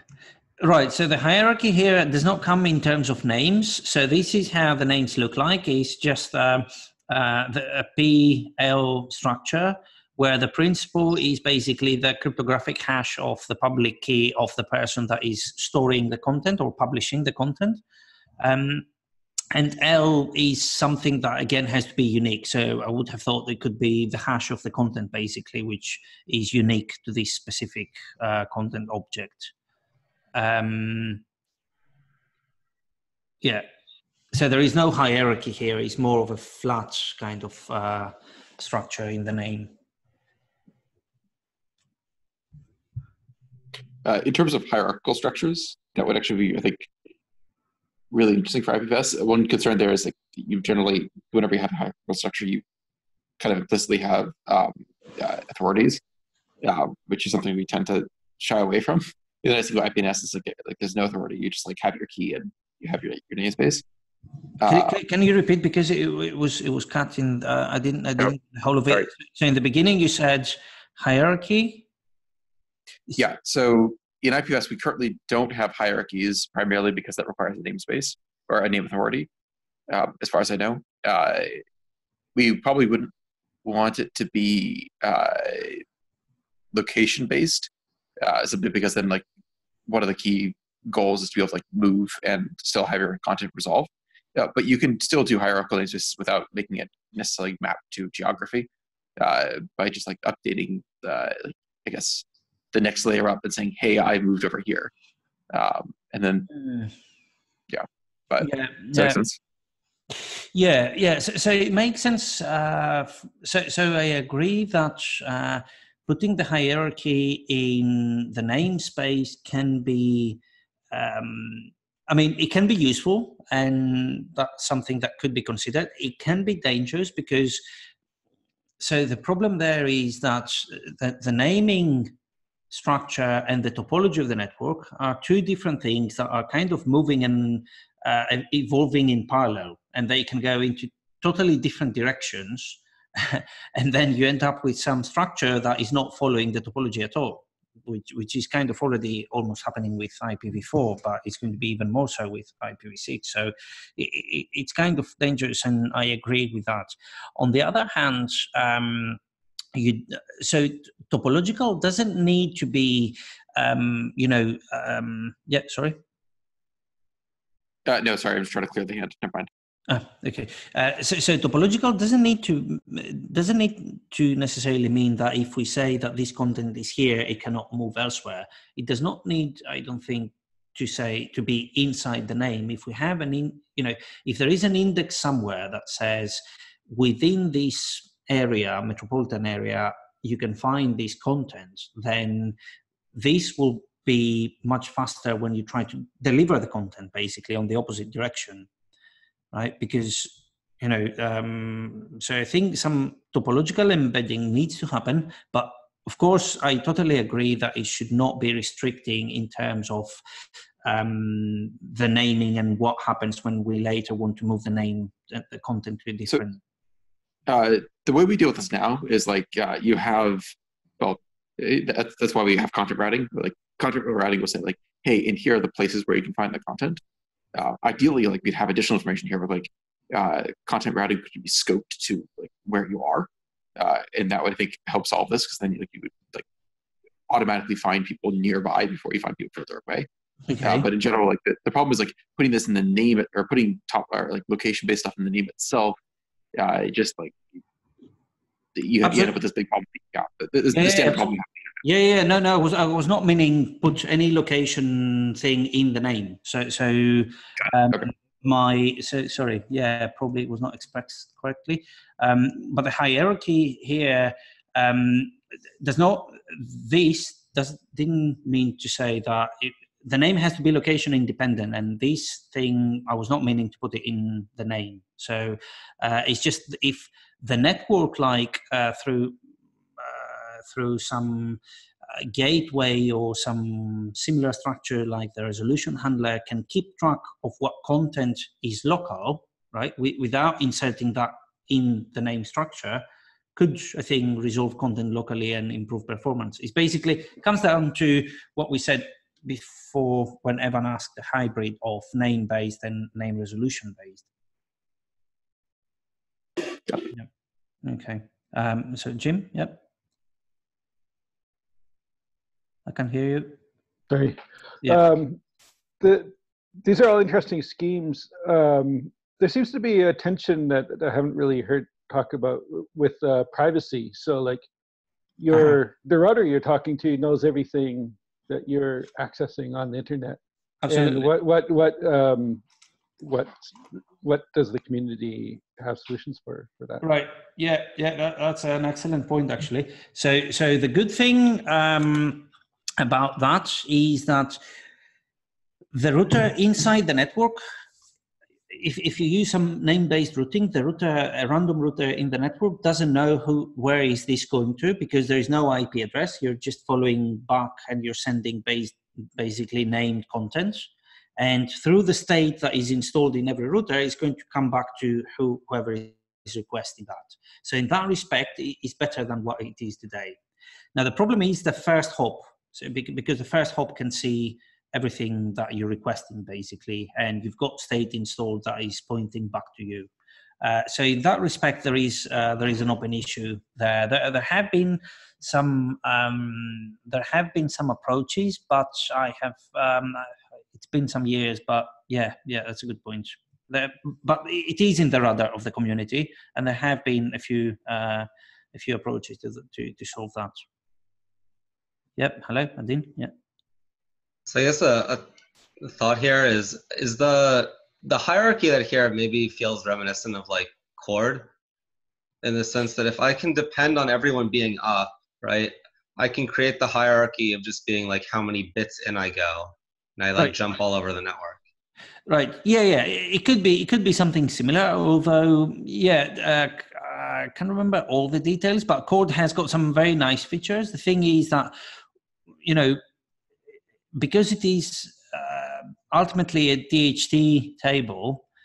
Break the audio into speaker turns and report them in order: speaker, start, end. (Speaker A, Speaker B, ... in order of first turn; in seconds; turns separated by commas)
Speaker A: 0.6-17.8, Speaker A: 18.4-18.9, Speaker A: 19.5-29.5, Speaker A: 30.3-31.2, Speaker A: 34.3-39.7, Speaker B: 44.0-46.9, Speaker B: 48.1-52.6, Speaker B: 53.4-56.0, Speaker B: 56.6-63.8, Speaker B: 64.6-65.0, Speaker A: 64.7-71.8, Speaker B: 73.2-79.3, Speaker B: 79.9-81.6, Speaker B: 82.4-83.1, Speaker B: 83.6-85.8, Speaker B: 86.7-87.7, Speaker B: 88.2-89.2, Speaker B: 89.9-104.9, Speaker B: 105.5-106.5, Speaker A: 106.5-106.9, Speaker B: 107.7-109.3, Speaker A: 108.4-109.2, Speaker A: 110.5-120.4, Speaker A: 120.9-127.6, Speaker A: 128.8-132.1, Speaker A: 132.7-159.2, Speaker A: 159.7-166.0, Speaker B: 167.9-169.5, Speaker A: 169.9-192.6, Speaker A: 193.2-198.7, Speaker A: 199.5-210.2, Speaker A: 210.8-216.6, Speaker B: 217.5-227.0, Speaker B: 227.6-236.4, Speaker B: 237.3-240.1, Speaker A: 240.5-240.9, Speaker B: 240.6-246.0, Speaker B: 246.6-247.4, Speaker B: 248.8-251.5, Speaker A: 249.0-249.3, Speaker A: 250.7-279.4, Speaker A: 280.0-281.6, Speaker A: 282.2-293.0, Speaker A: 293.6-304.2, Speaker A: 307.8-309.8, Speaker A: 312.9-313.6, Speaker C: 314.1-315.4, Speaker C: 316.0-324.7, Speaker C: 325.4-332.6, Speaker A: 325.5-325.8, Speaker A: 330.8-331.3, Speaker C: 333.2-337.0, Speaker A: 337.0-342.5, Speaker A: 343.0-344.6, Speaker A: 345.9-347.6, Speaker A: 348.7-370.4, Speaker A: 370.9-380.1, Speaker A: 380.6-400.6, Speaker A: 402.2-403.3, Speaker D: 404.5-405.3, Speaker D: 405.8-411.5, Speaker D: 412.4-421.6, Speaker A: 422.3-431.8, Speaker A: 432.6-433.0, Speaker A: 434.1-438.4